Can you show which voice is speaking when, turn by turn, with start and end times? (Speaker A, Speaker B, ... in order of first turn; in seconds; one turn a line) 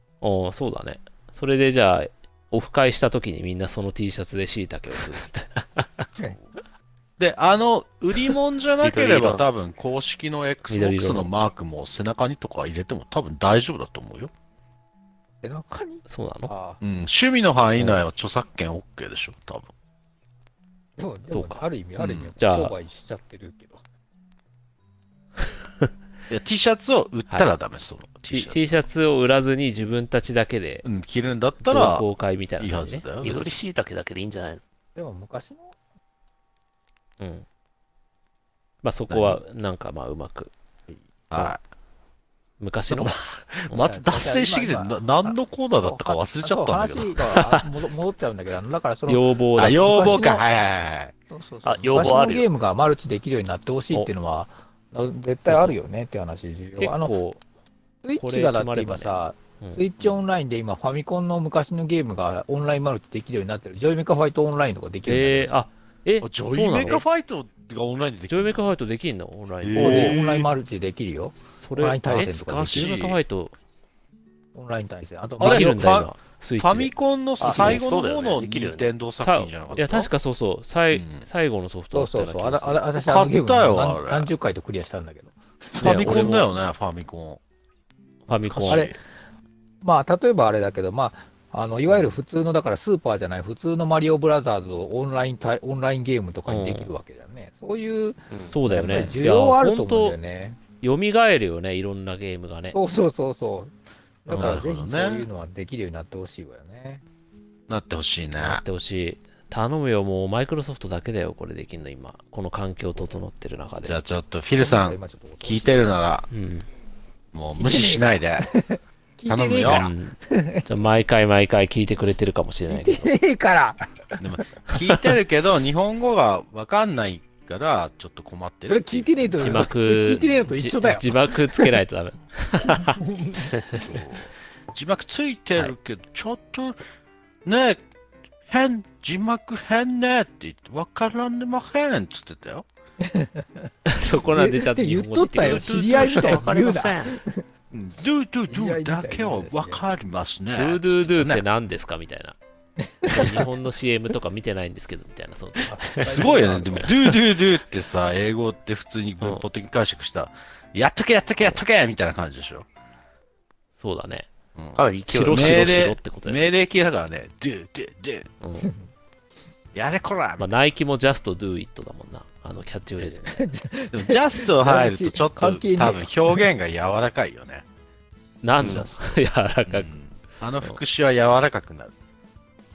Speaker A: 0.2-5.6
Speaker B: 7.2-14.3
Speaker C: 8.8-9.5
Speaker A: 10.7-11.3
Speaker D: 15.4-16.8
Speaker A: 16.1-16.5
Speaker B: 16.8-19.7
Speaker A: 17.8-18.0
Speaker D: 21.0-23.8
Speaker A: 21.3-21.6
Speaker B: 22.0-22.3
Speaker A: 22.4-22.7
Speaker B: 26.3-28.6
Speaker A: 28.3-30.9
Speaker B: 30.8-32.1
Speaker A: 31.6-33.1
Speaker B: 32.6-33.6
Speaker C: 33.2-34.6
Speaker D: 35.0-35.8
Speaker A: 37.2-37.5
Speaker A: 38.8-40.5
Speaker B: 39.1-39.4
Speaker B: 41.3-41.6
Speaker A: 42.6-43.2
Speaker B: 42.9-47.3
Speaker D: 43.7-50.4
Speaker A: 47.4-47.6
Speaker A: 49.1-50.2
Speaker B: 49.6-51.1
Speaker D: 51.3-57.1
Speaker C: 51.6-52.5
Speaker A: 55.4-55.8
Speaker A: 56.8-57.4
Speaker D: 58.0-65.5
Speaker A: 58.2-59.8
Speaker A: 65.1-67.0
Speaker B: 66.2-68.8
Speaker A: 68.3-70.2
Speaker B: 69.6-70.5
Speaker D: 69.8-72.9
Speaker A: 71.5-73.5
Speaker B: 72.5-73.2
Speaker D: 74.5-76.0
Speaker A: 75.4-76.9
Speaker B: 75.4-80.1
Speaker C: 77.4-78.9
Speaker A: 77.5-77.8
Speaker A: 79.2-82.9
Speaker B: 80.9-81.3
Speaker D: 81.9-86.4
Speaker B: 83.0-84.3
Speaker B: 85.8-87.4
Speaker A: 85.8-86.5
Speaker A: 88.3-88.9
Speaker B: 88.4-89.0
Speaker D: 88.7-89.0
Speaker D: 89.8-100.6
Speaker A: 96.5-96.9
Speaker A: 98.5-100.2
Speaker A: 100.8-102.8
Speaker D: 102.7-103.7
Speaker D: 104.2-107.0
Speaker B: 104.3-105.3
Speaker B: 107.7-108.6
Speaker A: 108.4-114.0
Speaker B: 113.8-116.3
Speaker D: 114.6-115.9
Speaker A: 116.3-116.7
Speaker B: 117.3-118.5
Speaker D: 117.6-118.0
Speaker D: 119.2-119.9
Speaker B: 119.3-119.9
Speaker A: 119.6-123.1
Speaker D: 122.7-123.8
Speaker B: 124.2-129.7
Speaker A: 124.7-125.0
Speaker D: 128.7-131.6
Speaker A: 129.4-133.0
Speaker B: 133.7-136.8
Speaker B: 137.4-137.8
Speaker B: 138.5-142.7
Speaker A: 143.9-146.4
Speaker D: 144.4-147.0
Speaker C: 145.8-147.2
Speaker B: 147.7-151.4
Speaker D: 148.5-149.8
Speaker A: 150.6-152.4
Speaker A: 153.1-155.9
Speaker D: 155.6-156.9
Speaker B: 156.0-162.7
Speaker A: 163.8-164.3
Speaker B: 164.6-168.3
Speaker C: 164.8-166.0
Speaker A: 165.1-166.4
Speaker A: 168.4-168.7
Speaker B: 169.7-170.5
Speaker A: 170.4-173.4
Speaker D: 173.0-176.5
Speaker B: 173.9-177.7
Speaker A: 178.4-179.9
Speaker C: 178.6-178.8
Speaker B: 178.6-179.1
Speaker B: 179.7-181.9